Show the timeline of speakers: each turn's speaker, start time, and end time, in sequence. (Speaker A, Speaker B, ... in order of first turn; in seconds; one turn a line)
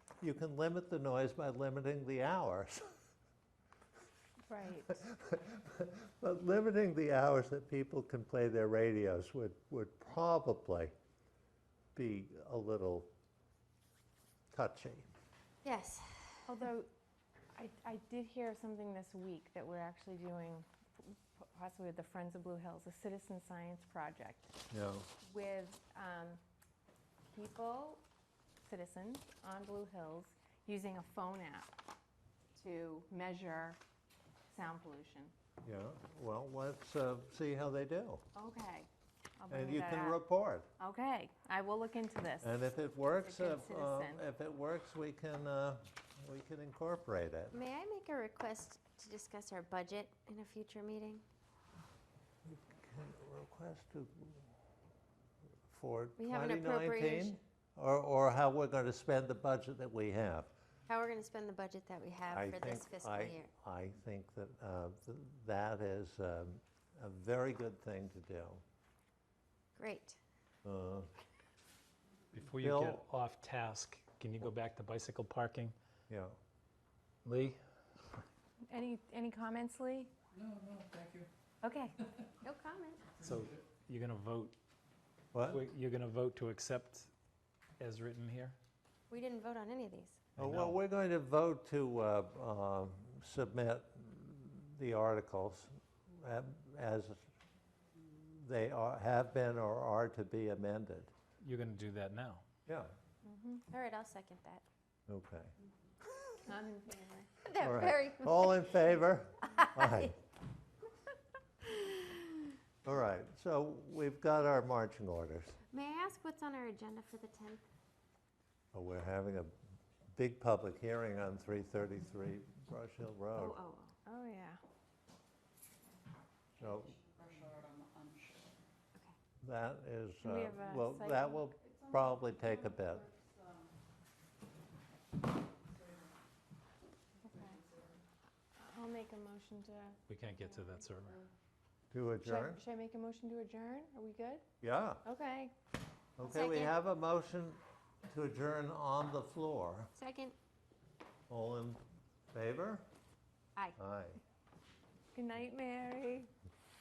Speaker A: 0.2-3.0
Speaker B: 4.5-5.0
Speaker A: 4.9-10.9
Speaker A: 11.9-13.1
Speaker A: 14.5-15.1
Speaker C: 15.6-16.5
Speaker B: 16.5-16.9
Speaker B: 17.6-24.5
Speaker A: 24.7-25.1
Speaker B: 25.2-26.4
Speaker B: 27.3-28.0
Speaker B: 28.6-31.7
Speaker B: 32.6-33.8
Speaker B: 34.5-35.3
Speaker A: 35.6-38.2
Speaker B: 38.4-38.9
Speaker B: 39.4-40.2
Speaker A: 39.5-40.7
Speaker B: 40.8-42.6
Speaker A: 42.4-47.6
Speaker B: 43.2-44.2
Speaker C: 47.5-51.2
Speaker A: 52.5-54.5
Speaker A: 55.7-60.5
Speaker C: 56.2-57.4
Speaker C: 60.9-63.5
Speaker A: 62.3-68.6
Speaker C: 69.8-70.2
Speaker A: 70.6-71.1
Speaker D: 72.3-75.8
Speaker A: 72.6-73.0
Speaker A: 76.1-76.4
Speaker D: 77.2-77.6
Speaker B: 78.7-80.1
Speaker B: 81.6-82.0
Speaker C: 82.4-83.1
Speaker D: 83.2-84.5
Speaker A: 85.3-85.6
Speaker D: 85.4-87.1
Speaker D: 87.8-88.6
Speaker C: 89.1-90.2
Speaker D: 90.4-90.8
Speaker A: 90.4-97.3
Speaker A: 98.1-101.1
Speaker D: 101.4-102.4
Speaker A: 102.7-102.9
Speaker B: 103.2-103.6
Speaker C: 103.7-104.7
Speaker A: 105.1-105.5
Speaker B: 106.5-107.3
Speaker C: 107.4-108.8
Speaker A: 107.6-110.2
Speaker C: 109.5-110.1
Speaker C: 111.7-112.2
Speaker A: 112.8-115.6
Speaker C: 115.7-117.7
Speaker A: 118.7-119.5
Speaker A: 120.2-123.6
Speaker C: 123.3-124.0
Speaker B: 124.1-124.6
Speaker A: 126.6-127.0
Speaker A: 129.4-133.1
Speaker B: 130.2-131.5
Speaker B: 137.2-137.7
Speaker B: 138.6-140.0
Speaker D: 140.1-141.2
Speaker A: 141.9-142.6
Speaker B: 142.2-144.4
Speaker A: 144.6-145.0
Speaker B: 145.0-145.5
Speaker A: 146.2-149.9
Speaker C: 146.2-146.7
Speaker C: 150.0-150.4
Speaker A: 151.3-151.8
Speaker A: 152.3-152.9
Speaker A: 153.8-154.2
Speaker B: 155.1-156.3